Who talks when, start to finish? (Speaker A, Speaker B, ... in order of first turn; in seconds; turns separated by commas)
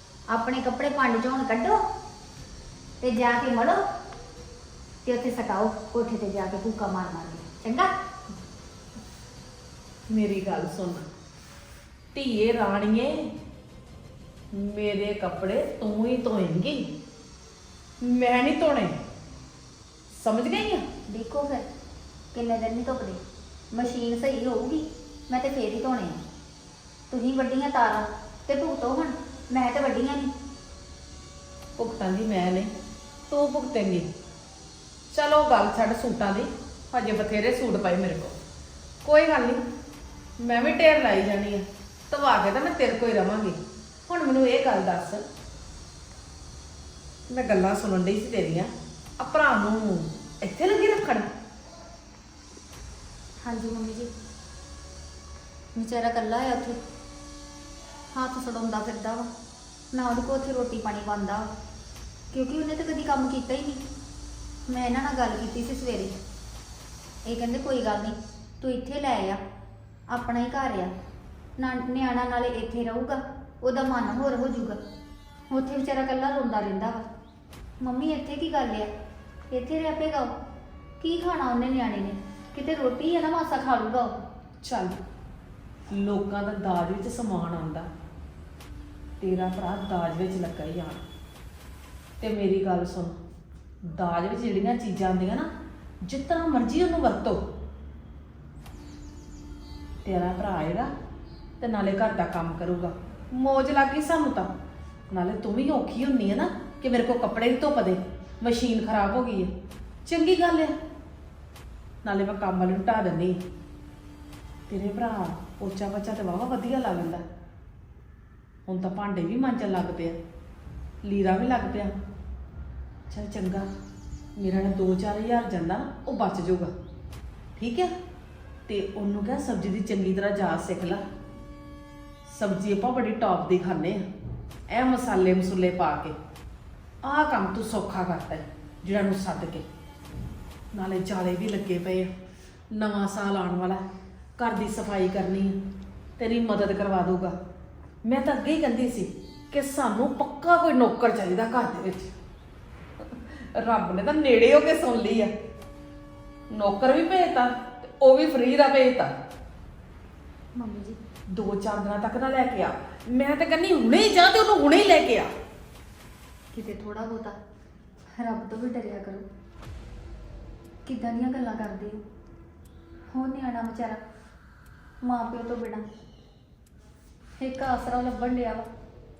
Speaker A: 0.3-1.8, Speaker A: 3.0-3.8, Speaker A: 5.0-7.9, Speaker B: 10.1-11.1, Speaker B: 12.1-13.3, Speaker B: 14.5-16.9, Speaker B: 18.0-19.0, Speaker B: 20.1-20.8, Speaker A: 21.1-21.6, Speaker A: 22.3-23.2, Speaker A: 23.7-26.2, Speaker A: 27.1-30.3, Speaker B: 31.8-32.7, Speaker B: 33.3-34.1, Speaker B: 35.1-38.4, Speaker B: 39.0-39.6, Speaker B: 40.4-45.2, Speaker B: 47.3-51.3, Speaker A: 53.4-54.1, Speaker A: 55.8-56.8, Speaker A: 58.1-59.3, Speaker A: 59.9-61.5, Speaker A: 62.3-63.8, Speaker A: 64.7-66.1, Speaker A: 67.3-69.4, Speaker A: 70.1-70.9, Speaker A: 71.6-74.8, Speaker A: 75.5-77.1, Speaker A: 77.8-78.9, Speaker A: 79.5-80.3, Speaker A: 81.0-84.2, Speaker B: 84.6-85.0, Speaker B: 85.9-87.9, Speaker B: 89.2-91.0, Speaker B: 92.2-93.2, Speaker B: 93.8-95.5, Speaker B: 96.0-97.4, Speaker B: 100.0-100.9, Speaker B: 101.6-104.5, Speaker B: 105.1-109.5, Speaker B: 110.0-110.7, Speaker B: 112.0-113.4, Speaker B: 114.7-117.2, Speaker B: 118.7-120.2, Speaker B: 121.0-121.9, Speaker B: 123.1-123.7, Speaker B: 124.3-126.7, Speaker B: 127.6-127.9, Speaker B: 128.7-131.0, Speaker B: 132.2-134.0, Speaker B: 134.7-136.2, Speaker B: 137.0-139.7, Speaker B: 140.7-142.1, Speaker B: 142.7-143.8, Speaker B: 144.4-145.6, Speaker B: 146.2-147.3, Speaker B: 148.0-152.1, Speaker B: 153.0-155.3, Speaker B: 156.5-159.1, Speaker A: 160.6-161.0, Speaker B: 161.3-165.3, Speaker A: 166.5-167.4, Speaker A: 168.2-169.2, Speaker A: 170.8-172.0, Speaker A: 173.1-174.0, Speaker A: 175.0-175.8, Speaker A: 177.4-178.7